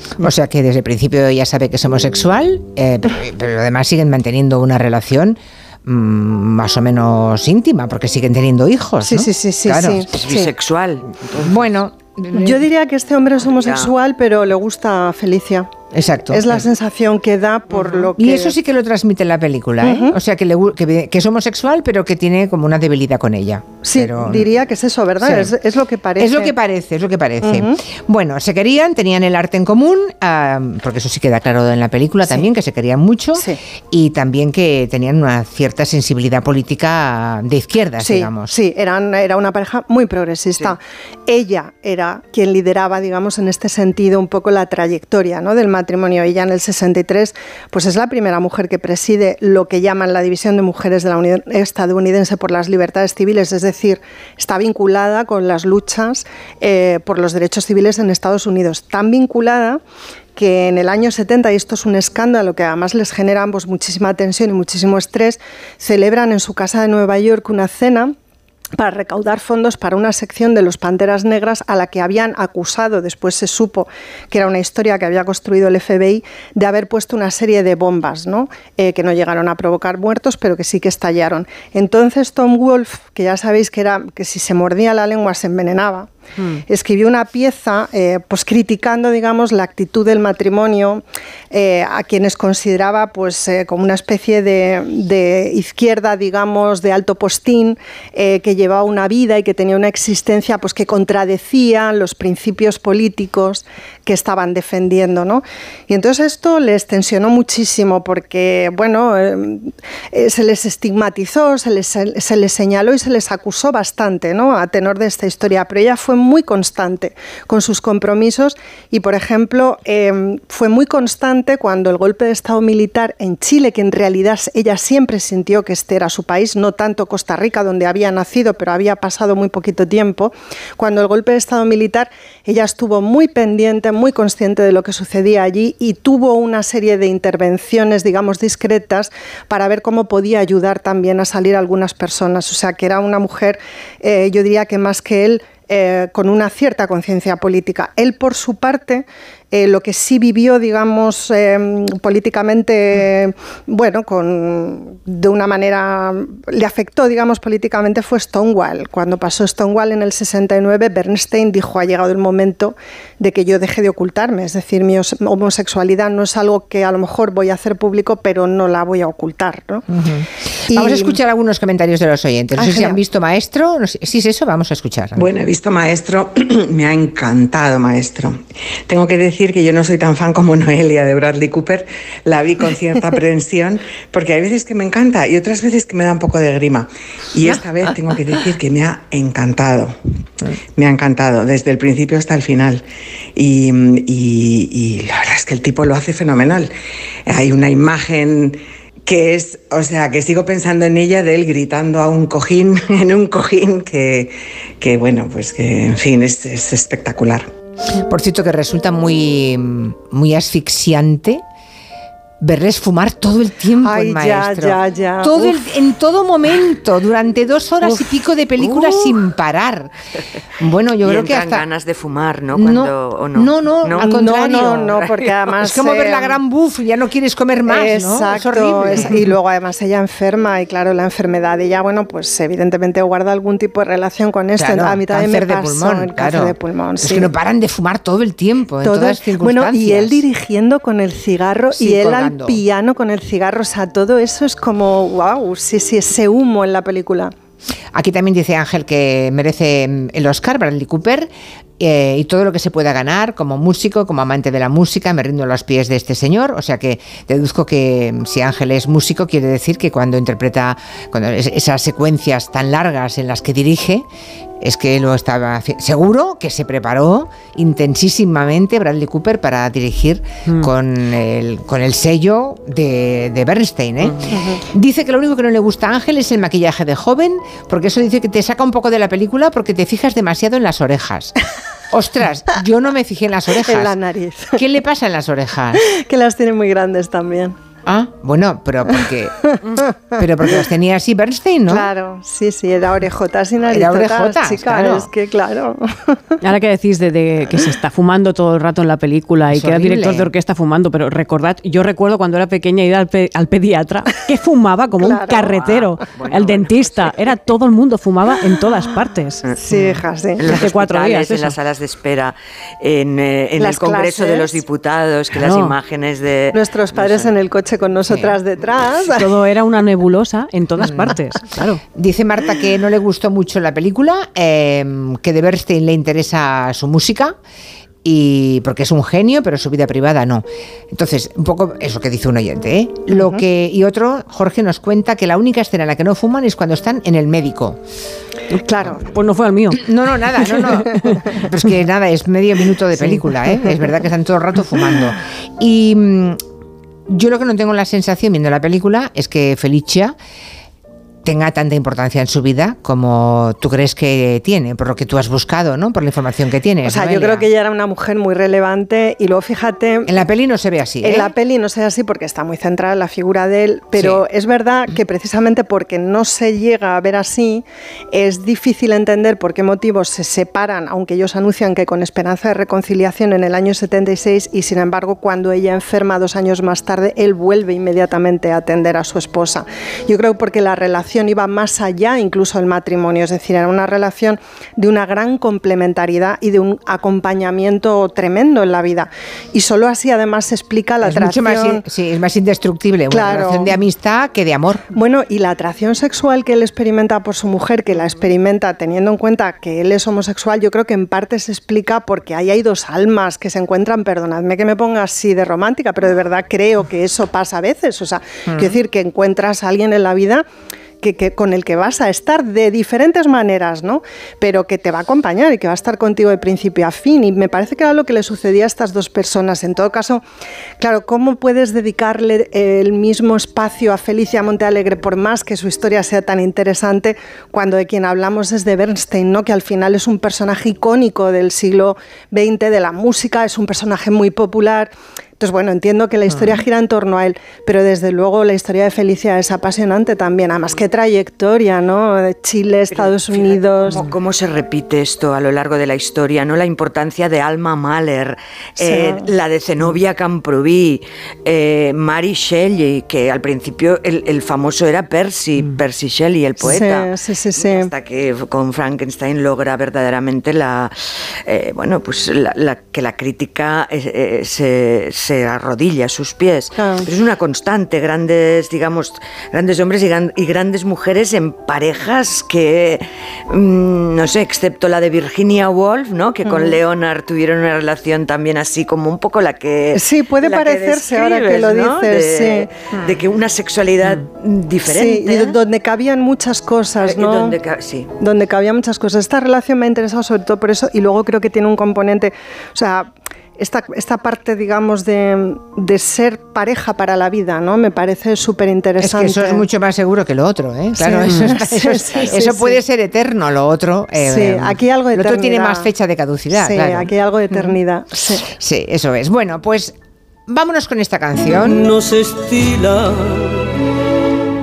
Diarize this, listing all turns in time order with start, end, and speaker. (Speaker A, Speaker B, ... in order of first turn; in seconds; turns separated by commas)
Speaker A: 0.2-10.5, Speaker B: 9.0-10.5, Speaker C: 10.1-11.6, Speaker A: 11.3-12.6, Speaker B: 12.3-15.7, Speaker C: 13.4-13.9, Speaker A: 15.9-16.6, Speaker B: 16.3-18.5, Speaker A: 17.8-24.4, Speaker B: 19.8-20.1, Speaker B: 23.8-26.5, Speaker A: 25.2-25.5, Speaker A: 26.2-38.5, Speaker B: 27.4-27.8, Speaker B: 38.0-59.8, Speaker B: 60.4-68.1, Speaker B: 68.8-86.1, Speaker B: 86.7-169.8, Speaker A: 169.9-175.2, Speaker B: 170.7-171.2, Speaker B: 172.5-173.0, Speaker D: 175.2-190.0, Speaker D: 190.8-192.8, Speaker D: 193.3-196.7, Speaker D: 197.3-207.5, Speaker A: 208.0-211.4, Speaker A: 212.4-219.9, Speaker B: 213.8-215.6, Speaker C: 218.6-219.1, Speaker A: 220.6-221.7, Speaker C: 221.0-224.2, Speaker A: 222.5-225.0, Speaker B: 224.0-226.4, Speaker A: 225.6-229.3, Speaker B: 227.7-237.3, Speaker A: 234.6-240.2, Speaker B: 238.8-247.3, Speaker A: 241.8-242.6, Speaker A: 247.9-264.1, Speaker A: 264.6-281.3, Speaker C: 274.0-274.3, Speaker A: 281.9-283.9, Speaker B: 283.6-284.6, Speaker A: 284.5-285.8, Speaker B: 285.9-287.6, Speaker A: 287.9-289.4, Speaker A: 290.2-291.9, Speaker B: 291.7-296.1, Speaker A: 293.7-295.1, Speaker E: 296.4-309.4, Speaker A: 299.5-300.3, Speaker B: 305.0-305.7, Speaker C: 305.5-307.1, Speaker C: 309.4-317.3, Speaker B: 309.6-310.5, Speaker E: 310.5-311.6, Speaker B: 313.6-314.6, Speaker E: 315.4-315.7, Speaker B: 316.5-319.3, Speaker A: 318.1-318.3, Speaker E: 319.1-321.8, Speaker A: 320.8-321.1, Speaker A: 321.9-327.4, Speaker A: 328.0-337.8, Speaker B: 333.1-333.4, Speaker B: 338.6-339.0, Speaker E: 338.8-341.2, Speaker A: 339.7-346.4, Speaker A: 347.1-350.1, Speaker A: 351.2-357.4, Speaker B: 356.8-360.1, Speaker A: 360.1-361.3, Speaker B: 361.0-391.8, Speaker A: 391.0-394.9, Speaker B: 393.1-393.7, Speaker B: 394.9-410.4, Speaker A: 408.4-408.8, Speaker B: 411.0-420.2, Speaker B: 420.8-444.1, Speaker C: 442.9-485.6, Speaker B: 448.8-449.3, Speaker B: 456.6-457.9, Speaker B: 466.8-467.1, Speaker B: 476.4-476.8, Speaker B: 479.9-482.7, Speaker B: 484.9-487.6, Speaker C: 487.0-488.1, Speaker B: 488.2-499.6, Speaker A: 499.0-507.7, Speaker B: 501.0-502.8, Speaker B: 504.2-505.9, Speaker B: 506.5-508.4, Speaker A: 508.3-509.9, Speaker A: 510.5-511.9, Speaker F: 511.4-513.7